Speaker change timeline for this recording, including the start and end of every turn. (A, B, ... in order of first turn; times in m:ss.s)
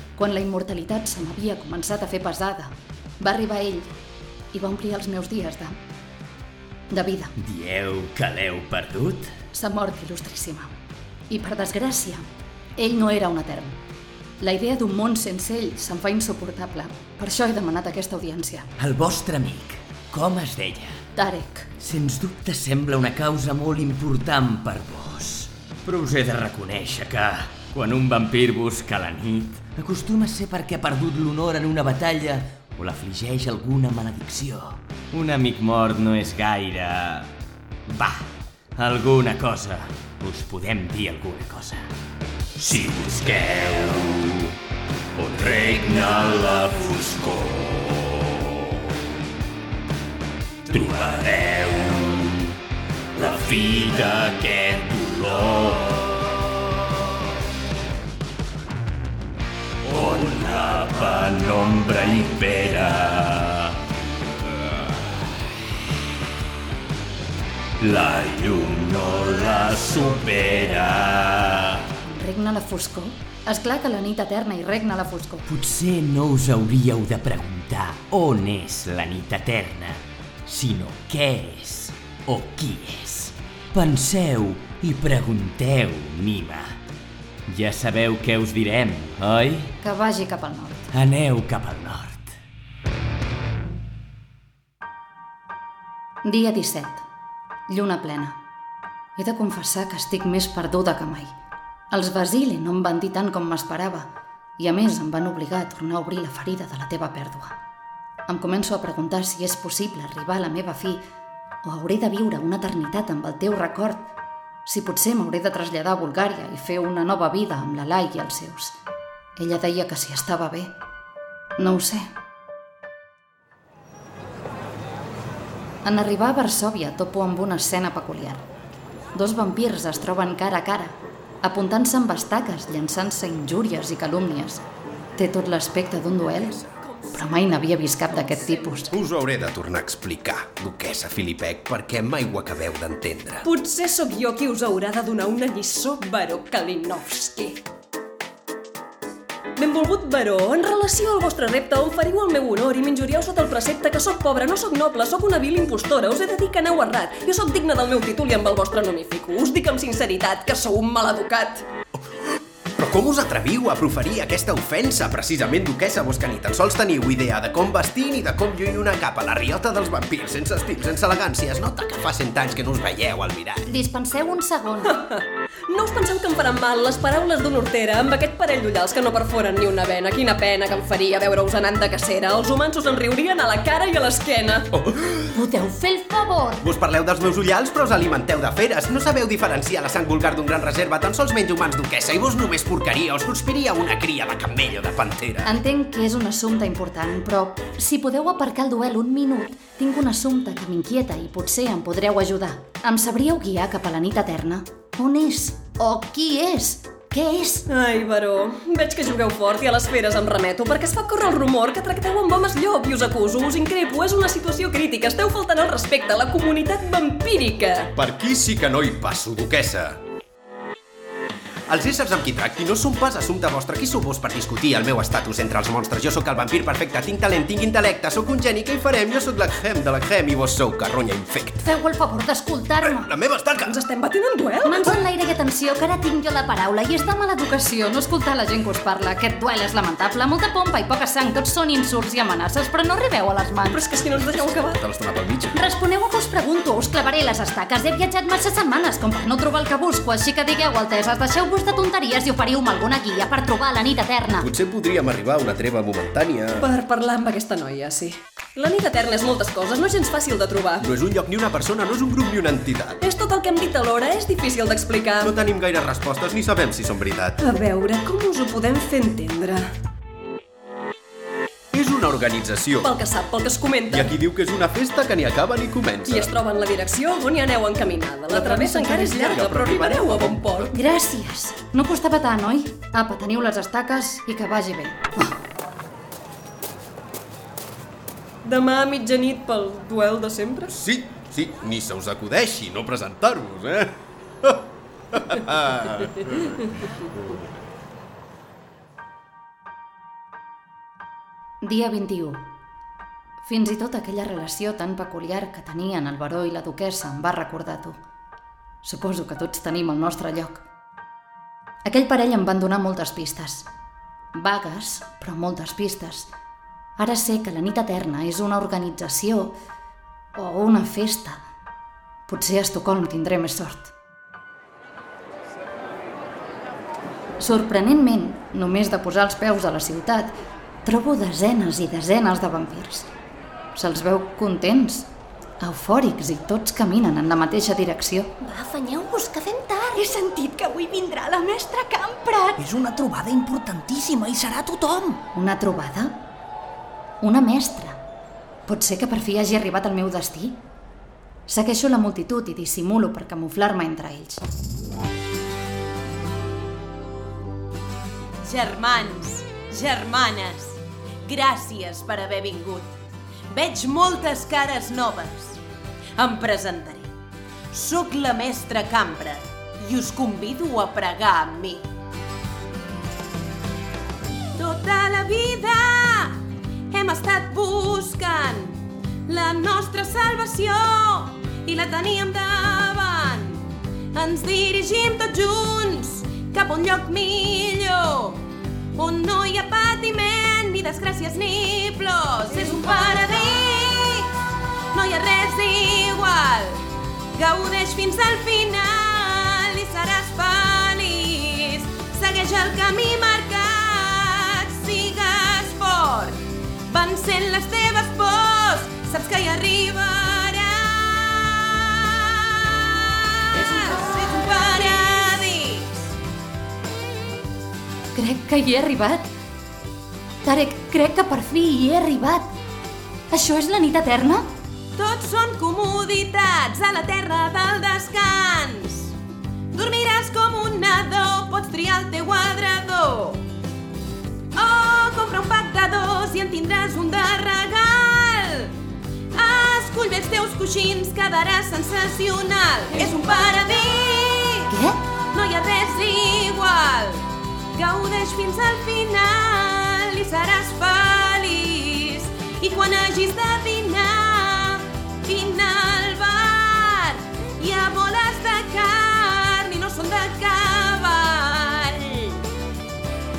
0:00.2-0:03.9 A
0:04.5-0:05.8 A
0:06.9-0:07.3 A
0:07.4-0:09.3 B
0:09.5-0:10.7 A
0:11.3-0:12.2 A
0:12.8-0:13.8 A
0:14.4-0:18.7 A
0:18.8-0:21.0 B
0:21.2-0:21.7 A
0:21.8-0:37.3 B
0:37.9-0:38.2 B
0:38.8-0:41.9 B
0:42.6-0:44.5 C
0:45.2-0:48.5 C
0:50.7-0:52.5 C
0:53.2-0:56.1 C
0:59.8-1:03.8 C
1:07.8-1:11.8 C
1:12.0-1:15.5 A
1:15.5-1:26.7 B
1:27.5-1:29.7 B
1:29.8-1:30.9 A
1:30.9-1:32.3 B
1:36.2-1:37.0 A
1:37.7-1:38.4 A
1:39.2-1:41.4 A
1:41.9-1:47.6 A
1:48.3-1:51.0 A
1:51.6-1:54.1 A
1:54.6-1:58.8 A
1:59.4-2:00.7 A
2:01.6-2:02.1 A
2:05.8-2:08.4 A
2:09.1-2:14.6 A
2:15.2-2:16.6 A
2:17.1-2:18.9 A
2:18.2-2:18.4 D
2:18.9-2:23.5 E
2:23.4-2:27.6 D
2:29.6-2:41.6 D
2:42.8-2:53.6 E
2:53.6-2:55.0 A
2:54.9-3:04.7 D
3:04.7-3:05.2 E
3:05.3-3:06.6 A
3:06.6-3:15.5 E
3:15.4-3:27.6 A
3:27.7-3:37.9 D
3:38.0-3:40.0 E
3:41.7-3:51.6 E
3:51.6-3:53.1 A
3:52.9-3:53.7 E
3:53.6-3:55.0 D
3:54.6-4:03.8 A
4:03.7-4:04.8 D
4:04.1-4:05.6 E
4:05.5-4:14.5 A
4:14.4-4:16.7 E
4:16.6-4:20.9 D
4:20.8-4:23.0 E
4:23.0-4:25.3 D
4:25.2-4:27.4 E
4:27.4-4:29.7 D
4:31.7-4:32.9 E
4:32.8-4:34.1 D
4:33.9-4:36.3 E
4:36.1-4:40.7 D
4:38.3-4:40.7 E
4:40.7-4:45.4 A
4:48.4-4:50.7 D
4:50.7-4:54.6 E
4:55.1-4:56.5 E
5:01.6-5:02.5 A
5:03.4-5:08.0 A
5:08.8-5:10.6 A
5:11.8-5:13.7 A
5:14.3-5:16.3 A
5:17.0-5:19.6 A
5:20.4-5:21.4 A
5:22.3-5:23.9 A
5:27.4-5:33.1 A
5:33.7-5:35.1 A
5:35.6-5:38.3 A
5:38.4-5:42.6 F
5:42.6-5:45.2 G
5:45.3-5:46.2 A
5:47.2-5:48.0 A
5:48.6-5:50.6 A
5:51.5-5:54.4 A
5:58.4-6:02.9 H
6:03.5-6:05.6 H
6:06.2-6:07.1 H
6:07.7-6:11.8 H
6:14.6-6:16.4 H
6:16.9-6:28.4 H
6:28.9-6:34.3 H
6:34.9-6:36.8 H
6:37.3-6:55.9 H
6:58.1-6:59.3 A
7:00.4-7:02.5 A
7:03.3-7:04.5 A
7:05.0-7:09.1 H
7:09.7-7:13.4 H
7:14.5-7:18.7 H
7:19.3-7:24.7 H
7:24.7-7:25.0 A
7:25.3-7:42.4 H